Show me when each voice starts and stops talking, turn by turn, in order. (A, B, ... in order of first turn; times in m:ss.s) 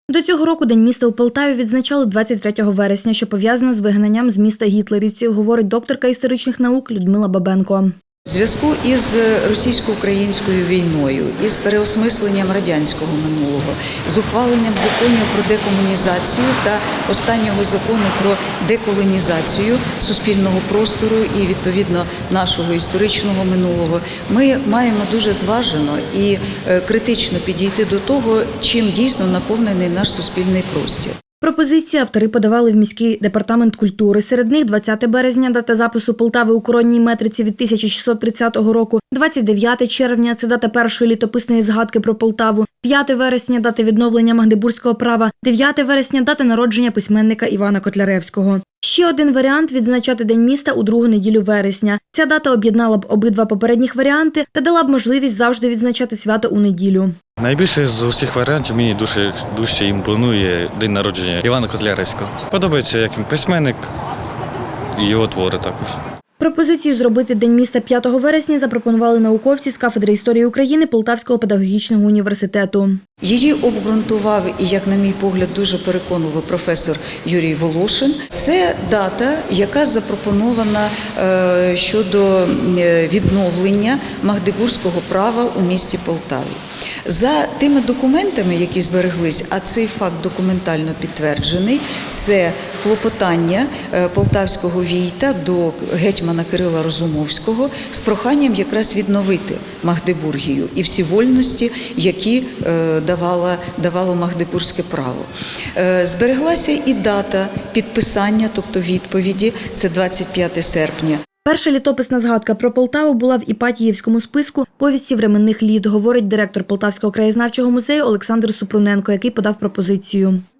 0:00.1-0:07.9 A
0:08.2-0:31.2 B
0:31.4-0:57.1 A
0:57.4-1:03.8 C
1:05.0-1:06.0 C
1:06.4-1:13.0 A
1:13.2-1:51.2 B
1:51.4-2:00.4 A